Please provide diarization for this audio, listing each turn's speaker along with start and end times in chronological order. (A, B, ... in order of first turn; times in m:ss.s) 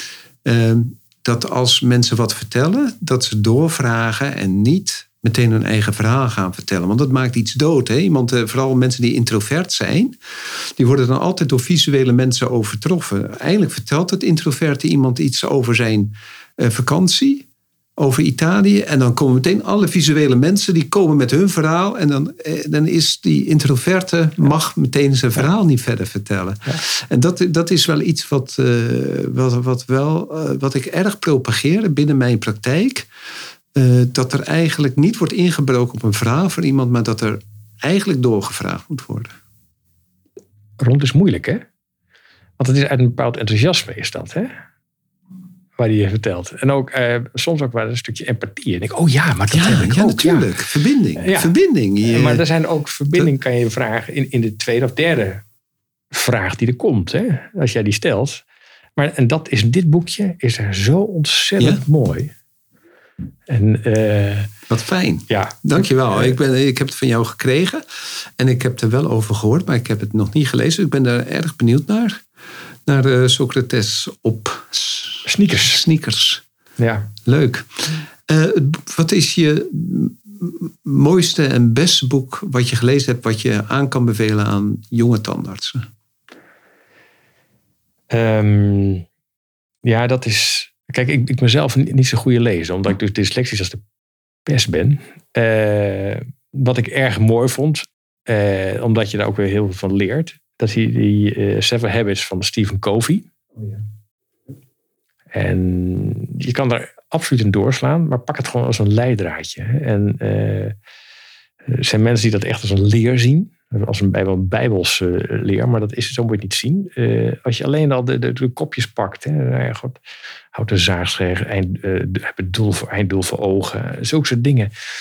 0:00.4-0:10.2 A
0:10.8-0:17.4 A
0:18.0-0:33.1 A
0:33.7-0:39.3 A
0:40.8-0:41.6 B
0:42.6-0:44.5 B
0:45.8-0:50.5 B
0:49.5-0:52.4 A
0:51.2-0:55.4 B
0:56.1-0:58.4 B
0:59.0-1:02.3 B
1:03.5-1:04.5 B
1:04.7-1:07.8 A
1:05.3-1:06.4 B
1:08.4-1:12.2 A
1:12.9-1:16.4 A
1:15.2-1:15.8 B
1:16.8-1:17.1 B
1:17.2-1:25.8 A
1:28.1-1:29.0 B
1:29.8-1:33.8 B
1:34.4-1:43.3 B
1:45.3-1:50.8 B
1:51.6-2:00.0 B
2:00.5-2:04.7 B